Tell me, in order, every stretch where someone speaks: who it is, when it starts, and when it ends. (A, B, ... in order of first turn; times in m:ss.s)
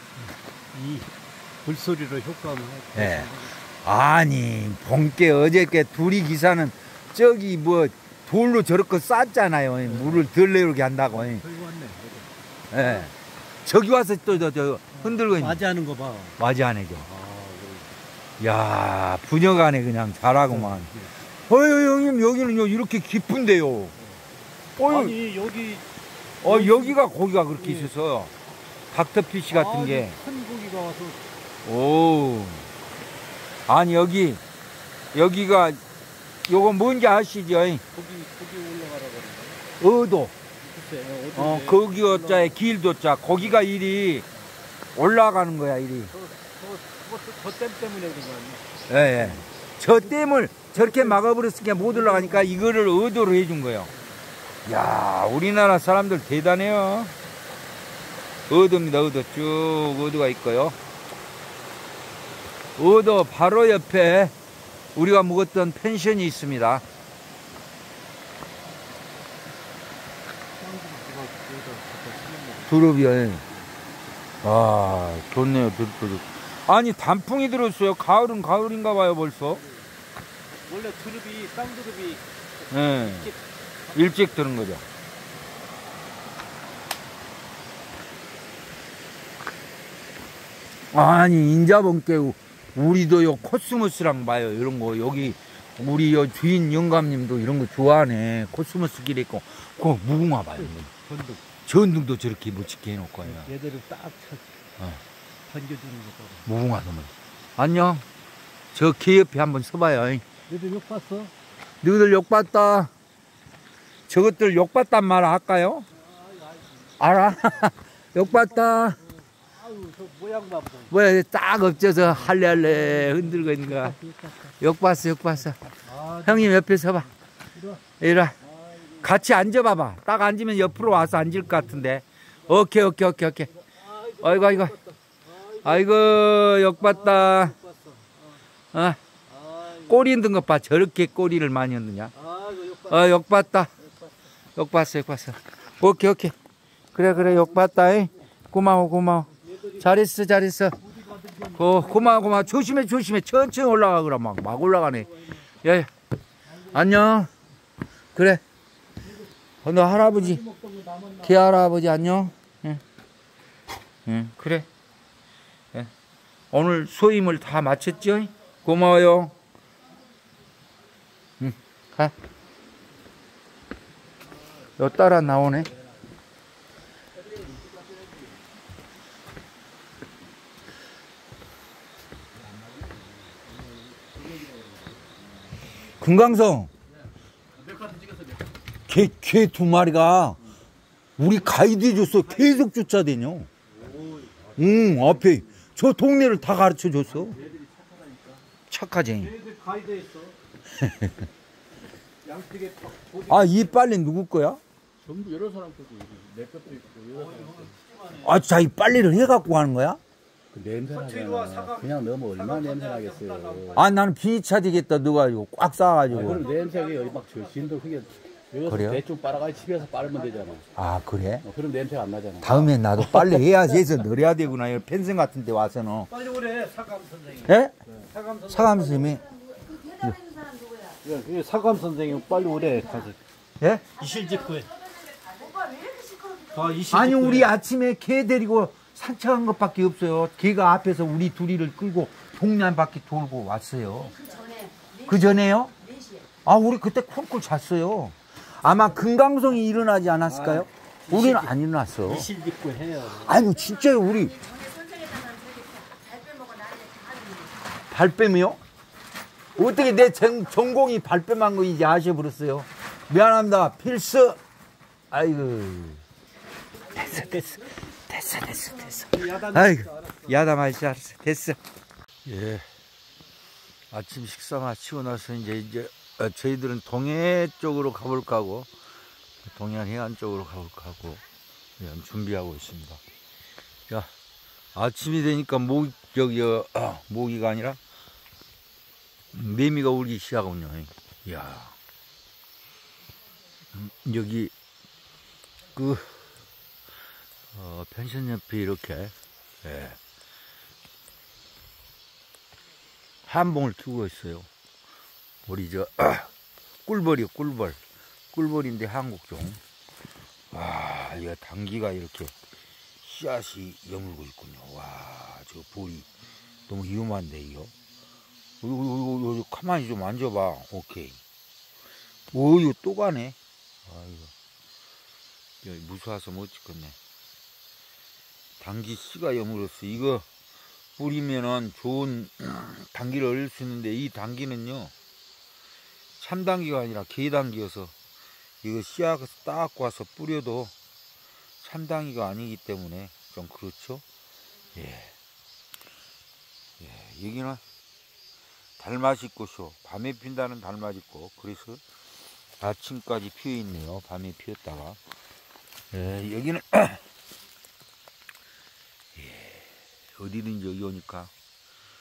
0:00.3-0:03.6 A
0:02.9-0:11.4 B
0:09.8-0:10.3 A
0:11.1-0:13.1 A
0:12.7-0:15.6 B
0:14.9-0:16.4 A
0:16.4-0:17.1 B
0:17.0-0:17.9 A
0:18.4-0:20.9 B
0:20.5-0:21.1 A
0:21.4-0:24.0 B
0:24.8-0:25.2 B
0:24.8-0:25.9 A
0:26.4-0:27.0 A
0:26.4-0:28.3 B
0:27.6-0:27.9 A
0:28.9-0:30.2 B
0:29.5-0:31.3 A
0:31.6-0:32.7 B
0:33.7-0:34.4 B
0:35.1-0:35.8 B
0:36.4-0:37.8 B
0:37.9-0:39.7 A
0:39.8-0:40.4 B
0:40.6-0:42.6 A
0:41.3-0:44.3 B
0:45.0-0:46.1 B
0:46.1-0:52.6 A
0:48.9-0:53.9 B
0:54.6-0:57.1 B
0:58.5-1:00.8 B
1:02.8-1:04.4 B
1:05.0-1:06.8 B
1:10.6-1:13.0 A
1:12.7-1:13.4 B
1:14.4-1:19.6 B
1:19.5-1:19.9 A
1:20.6-1:24.3 A
1:22.7-1:23.3 B
1:23.9-1:24.8 B
1:30.9-1:40.9 B
1:40.6-1:41.4 A
1:41.7-1:43.5 B
1:43.2-1:44.6 A
1:45.4-1:46.4 A
1:46.4-1:48.1 B
1:48.7-1:50.2 B
1:50.5-1:51.3 A
1:51.8-1:52.9 B
1:54.1-1:55.9 B
1:55.9-2:01.0 A
1:57.0-1:59.0 B
2:00.9-2:04.0 B
2:02.1-2:04.5 A
2:04.6-2:05.6 B
2:05.8-2:06.9 A
2:06.2-2:07.1 B
2:07.6-2:07.8 A
2:08.0-2:08.4 B
2:08.4-2:09.1 A
2:09.0-2:13.5 B
2:13.5-2:18.4 A
2:14.2-2:14.8 B
2:15.6-2:17.6 B
2:18.7-2:19.0 B
2:19.3-2:20.4 A
2:19.9-2:22.1 B
2:22.1-2:23.2 A
2:22.9-2:23.7 B
2:23.8-2:24.1 A
2:24.6-2:26.3 B
2:27.0-2:30.8 B
2:27.0-2:28.1 A
2:29.4-2:30.0 A
2:30.8-2:32.7 A
2:31.6-2:35.9 B
2:34.7-2:35.5 A
2:36.6-2:36.9 A
2:36.7-2:37.3 B
2:38.1-2:38.4 B
2:39.6-2:40.4 B
2:39.9-2:41.5 A
2:41.2-2:42.8 B
2:44.1-2:44.7 B
2:46.5-2:49.4 B
2:51.4-2:52.1 B
2:54.8-2:55.7 B
3:06.0-3:06.7 B
3:07.6-3:08.4 A
3:08.9-3:10.4 B
3:11.2-3:13.5 B
3:11.3-3:12.7 A
3:13.7-3:15.5 A
3:14.6-3:17.4 B
3:17.1-3:18.4 A
3:18.7-3:19.3 B
3:19.1-3:20.4 A
3:20.8-3:21.3 B
3:22.2-3:23.8 A
3:23.3-3:24.6 B
3:25.1-3:27.7 C
3:25.1-3:26.3 D
3:27.1-3:28.4 A
3:28.2-3:30.0 B
3:30.5-3:33.8 D
3:30.7-3:34.0 A
3:31.0-3:32.8 C
3:33.8-3:36.5 B
3:36.1-3:39.0 A
3:36.2-3:37.2 D
3:36.7-3:37.5 C
3:38.6-3:40.2 D
3:38.7-3:39.0 B
3:39.1-3:40.4 C
3:39.8-3:40.6 A
3:40.8-3:41.4 B
3:41.6-3:42.5 D
3:42.4-3:46.1 B
3:42.5-3:43.4 A
3:46.1-3:49.2 A
3:47.5-3:47.8 B
3:48.5-3:49.2 B
3:49.2-3:51.0 E
3:51.0-3:53.2 A
3:52.4-3:53.0 E
3:53.6-3:53.9 B
3:54.0-3:54.7 A
3:54.0-3:56.9 E
3:56.5-3:57.5 A
3:56.9-4:04.1 B
4:04.1-4:06.3 E
4:05.1-4:05.7 B
4:06.4-4:12.3 B
4:10.2-4:13.4 A
4:13.1-4:14.3 B
4:13.3-4:17.8 E
4:17.9-4:18.6 B
4:19.6-4:24.4 B
4:25.1-4:26.0 B
4:26.9-4:31.6 B
4:26.9-4:27.6 A
4:29.1-4:30.4 A
4:32.2-4:32.7 B
4:33.9-4:38.7 B
4:39.4-4:41.2 B
4:41.8-4:43.0 B
4:44.8-4:47.8 B
4:49.3-4:51.8 B
4:53.7-4:54.5 B
4:55.8-4:56.2 B
4:57.5-5:00.0 B
5:03.3-5:04.5 B
5:05.4-5:06.3 B
5:06.9-5:07.8 B
5:08.3-5:09.6 B
5:10.5-5:12.4 B
5:13.0-5:16.1 B
5:16.7-5:17.7 B
5:18.6-5:21.2 B
5:22.3-5:24.3 B
5:25.6-5:27.0 B
5:28.6-5:30.3 B
5:31.0-5:34.9 B
5:36.2-5:38.0 B
5:38.6-5:40.7 B
5:41.6-5:44.0 B
5:44.7-5:45.1 B
5:46.8-5:47.6 B
5:48.8-5:51.8 B
5:52.6-5:55.0 B
5:55.9-5:57.0 B
5:59.1-6:01.3 B